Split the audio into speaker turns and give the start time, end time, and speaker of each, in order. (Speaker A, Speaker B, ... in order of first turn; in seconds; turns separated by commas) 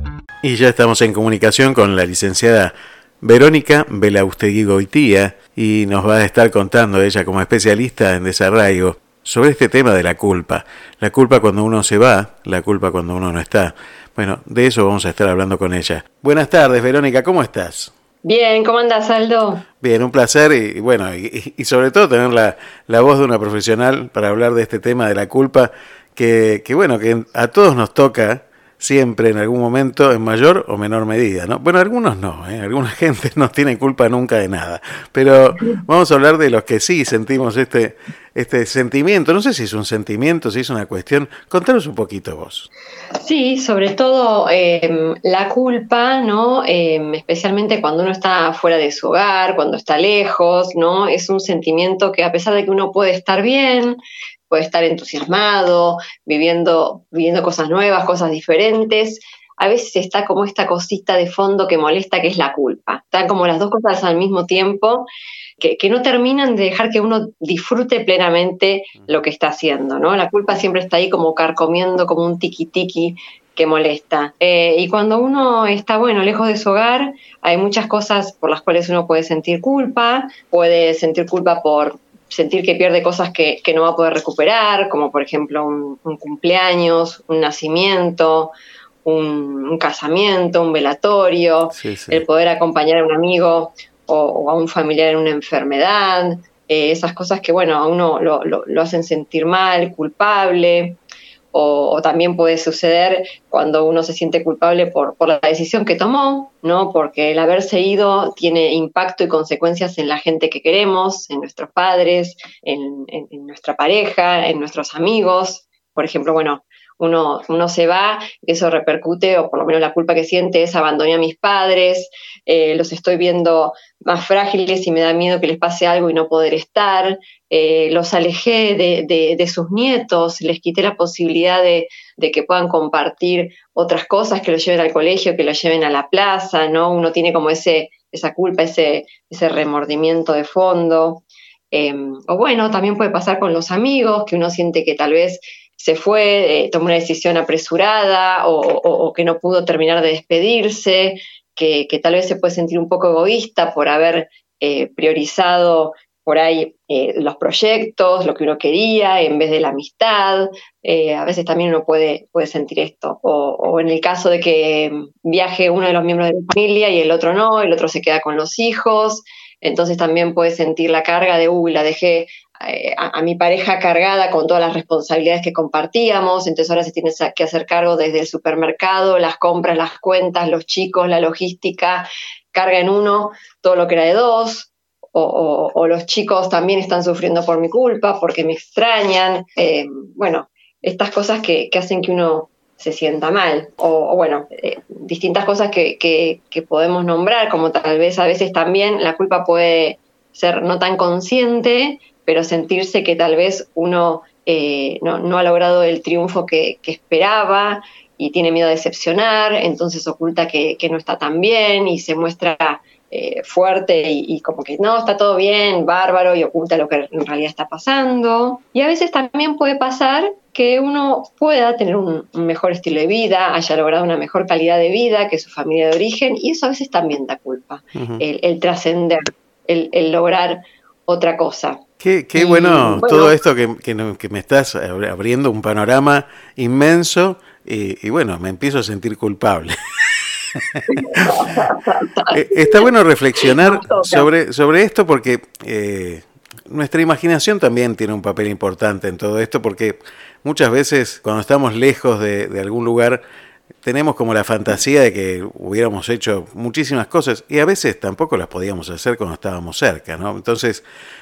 Speaker A: 0.4-17.9, Speaker B: 18.2-19.6, Speaker A: 19.8-42.7, Speaker B: 43.2-65.1, Speaker B: 65.6-88.5, Speaker B: 89.0-101.0, Speaker A: 91.7-92.2, Speaker B: 101.5-231.8, Speaker A: 227.9-228.2, Speaker A: 232.0-239.7, Speaker B: 232.3-233.4, Speaker A: 240.8-241.3, Speaker B: 240.9-242.9, Speaker A: 242.3-253.2, Speaker B: 243.4-244.3, Speaker A: 253.8-260.8